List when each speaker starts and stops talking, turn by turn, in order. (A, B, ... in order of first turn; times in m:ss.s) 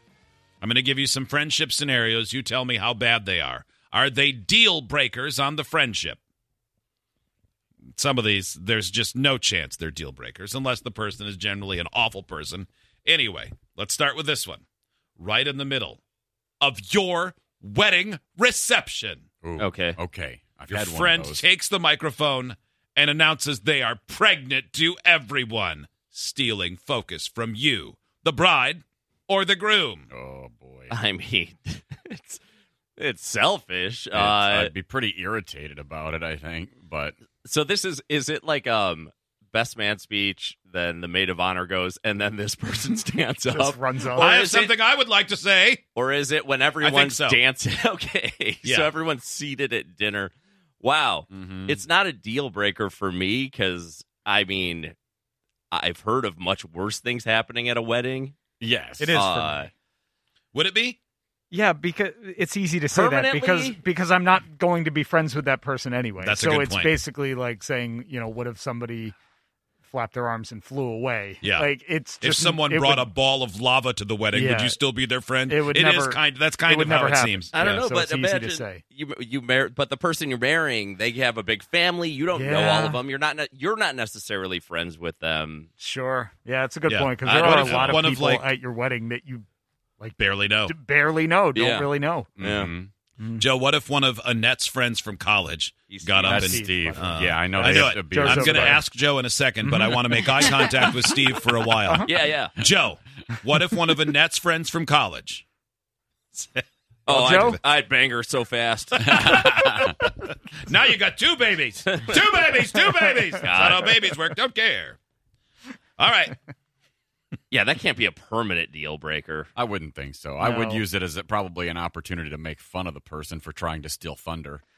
0:00.6-0:06.2 A
0:08.0-0:14.6 A
0:15.2-0:16.0 A
0:16.6-0:19.2 A
0:19.4-0:21.4 B
0:19.6-0:20.0 C
0:20.7-0:30.1 A
0:30.1-0:30.9 B
0:30.9-0:32.4 C
0:33.0-0:34.7 C
0:34.1-0:37.2 B
0:37.4-0:44.8 C
0:43.5-0:44.4 D
0:44.2-0:45.8 A
0:46.0-0:55.0 C
0:46.8-0:47.4 A
0:48.6-0:48.9 A
0:51.3-0:51.8 B
0:55.7-0:58.4 C
0:58.6-0:59.3 B
0:59.0-0:59.7 D
0:59.1-0:59.7 C
1:00.5-1:01.0 A
1:01.5-1:09.2 D
1:02.9-1:03.8 C
1:06.2-1:07.0 A
1:09.9-1:13.1 D
1:11.4-1:11.7 A
1:12.2-1:17.8 A
1:14.3-1:14.8 D
1:15.5-1:18.8 D
1:17.5-1:25.7 C
1:22.3-1:23.0 D
1:25.8-1:29.5 D
1:26.9-1:28.5 A
1:27.5-1:28.0 B
1:30.0-1:32.4 D
1:30.2-1:30.7 A
1:31.5-1:32.7 C
1:32.4-1:32.9 B
1:33.2-1:33.4 D
1:33.4-1:45.4 A
1:35.9-1:36.6 C
1:36.2-1:38.7 B
1:36.5-1:38.9 D
1:39.6-1:40.9 D
1:42.1-1:42.6 C
1:46.4-1:46.6 A
1:47.1-1:49.1 C
1:47.1-1:47.6 D
1:49.0-1:55.0 A
1:49.1-1:49.9 B
1:53.4-1:54.0 C
1:56.0-1:56.4 A
1:57.5-1:59.5 C
1:59.6-2:04.6 B
2:00.4-2:00.8 D